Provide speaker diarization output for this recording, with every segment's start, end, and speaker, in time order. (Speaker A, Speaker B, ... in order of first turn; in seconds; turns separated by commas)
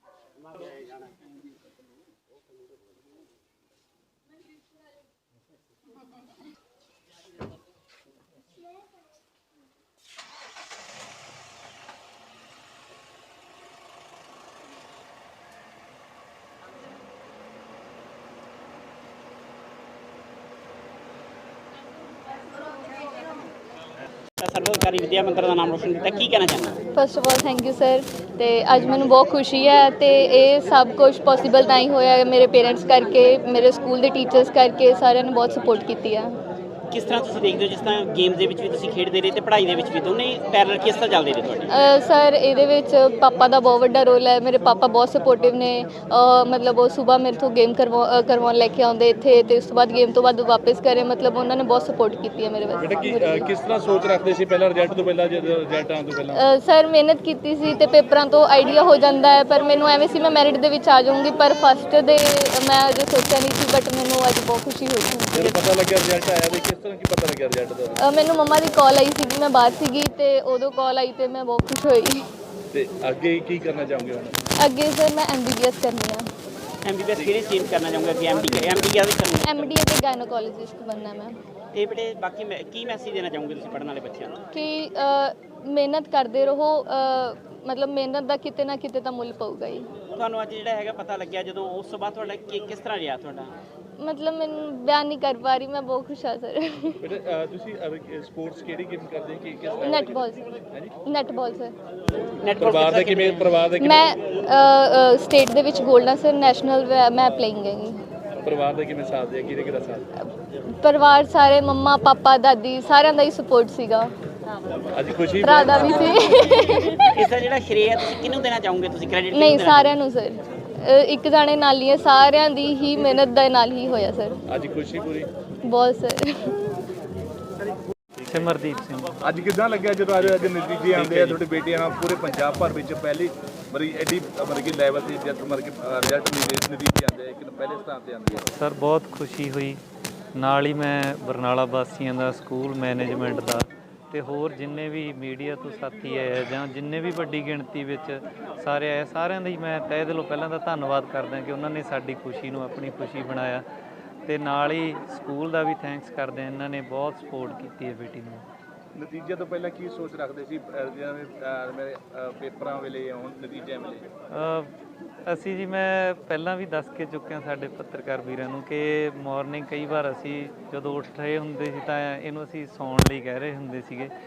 Speaker A: 24.4-26.8, Speaker B: 26.9-36.3, Speaker A: 36.9-41.7, Speaker B: 41.7-53.4, Speaker C: 52.8-56.4, Speaker B: 56.4-65.6, Speaker C: 65.3-68.0, Speaker B: 68.0-72.2, Speaker C: 72.7-74.4, Speaker B: 74.6-76.3, Speaker A: 76.8-79.8, Speaker C: 77.1-77.5, Speaker B: 79.4-81.4, Speaker A: 81.7-84.4, Speaker B: 84.5-89.9, Speaker A: 90.1-93.5, Speaker B: 94.0-97.0, Speaker C: 97.0-101.0, Speaker B: 99.8-100.5, Speaker B: 101.0-101.8, Speaker A: 102.4-103.6, Speaker C: 102.6-104.0, Speaker B: 103.8-108.0, Speaker C: 108.4-110.1, Speaker B: 110.8-114.1, Speaker C: 114.9-116.4, Speaker B: 115.4-117.3, Speaker A: 117.2-119.9, Speaker B: 119.3-124.4, Speaker C: 124.5-125.3, Speaker B: 125.7-126.6, Speaker C: 128.2-128.5, Speaker D: 128.3-129.1, Speaker C: 129.2-138.5, Speaker D: 138.6-139.8, Speaker D: 140.4-153.7, Speaker D: 154.2-158.4, Speaker C: 158.9-164.1, Speaker D: 164.3-164.7, Speaker D: 165.3-174.1